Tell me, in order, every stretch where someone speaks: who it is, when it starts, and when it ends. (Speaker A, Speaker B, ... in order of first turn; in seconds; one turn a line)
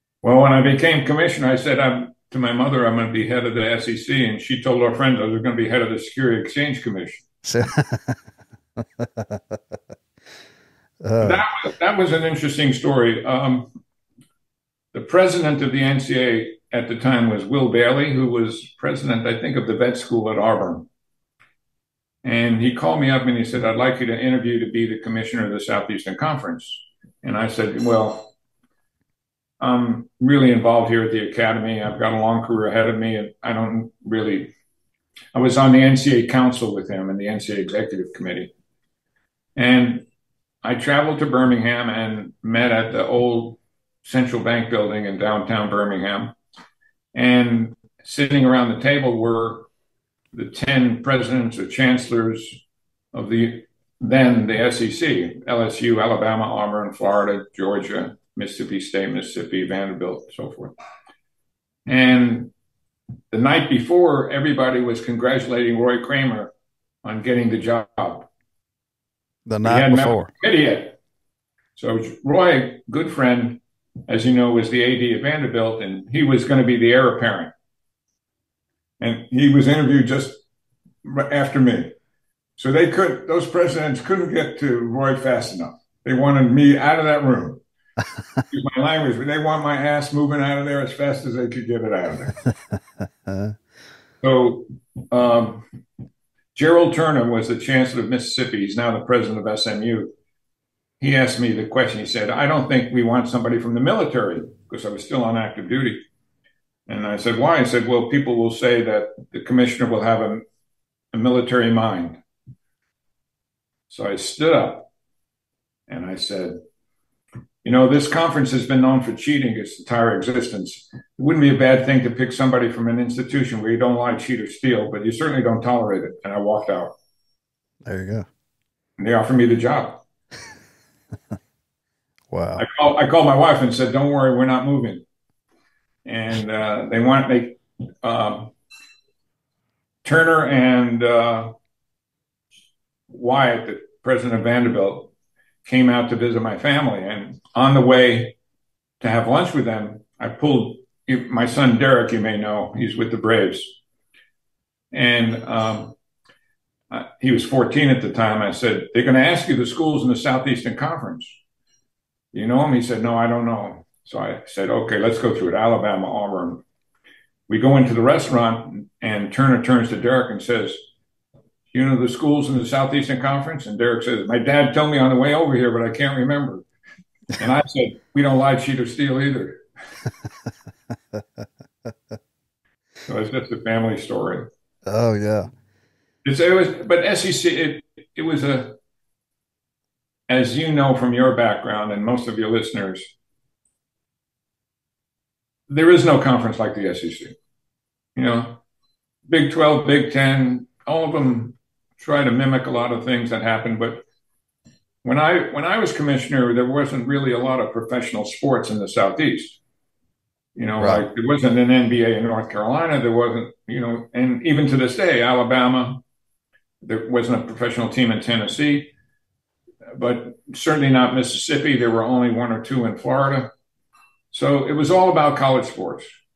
Speaker A: 0.2-7.2
Speaker B: 7.4-8.2
Speaker B: 9.0-9.4
Speaker B: 11.0-11.4
Speaker A: 11.2-13.7
Speaker A: 14.9-20.9
Speaker A: 22.2-28.3
Speaker A: 29.6-34.5
Speaker A: 35.3-38.5
Speaker A: 39.5-40.0
Speaker A: 40.6-46.3
Speaker A: 47.1-49.7
Speaker A: 50.3-52.6
Speaker A: 53.1-60.7
Speaker A: 61.9-62.5
Speaker A: 63.3-66.5
Speaker A: 67.0-68.3
Speaker B: 69.5-70.3
Speaker A: 69.6-71.0
Speaker A: 71.8-77.5
Speaker A: 79.0-80.4
Speaker A: 81.0-81.9
Speaker A: 82.6-87.6
Speaker A: 88.5-92.3
Speaker A: 94.2-95.7
Speaker A: 96.5-100.1
Speaker A: 101.0-106.0
Speaker A: 106.9-110.4
Speaker A: 111.1-112.2
Speaker A: 113.9-114.9
Speaker A: 115.9-116.6
Speaker A: 117.6-126.9
Speaker B: 127.8-128.2
Speaker A: 129.0-130.0
Speaker B: 132.3-132.6
Speaker A: 132.6-135.0
Speaker A: 136.1-138.5
Speaker A: 140.0-141.5
Speaker A: 143.1-145.1
Speaker A: 145.6-148.3
Speaker A: 149.0-153.8
Speaker A: 154.9-155.9
Speaker A: 156.9-161.4
Speaker A: 162.3-166.6
Speaker A: 167.5-170.8
Speaker A: 171.7-176.7
Speaker A: 177.4-179.6
Speaker A: 183.1-184.4
Speaker B: 184.9-185.5
Speaker A: 186.2-188.8
Speaker A: 190.3-193.1
Speaker A: 195.7-197.3
Speaker A: 198.2-198.6
Speaker A: 199.3-204.0
Speaker A: 205.0-209.6
Speaker A: 210.6-216.0
Speaker A: 216.8-218.9
Speaker A: 219.9-223.5
Speaker A: 224.3-226.1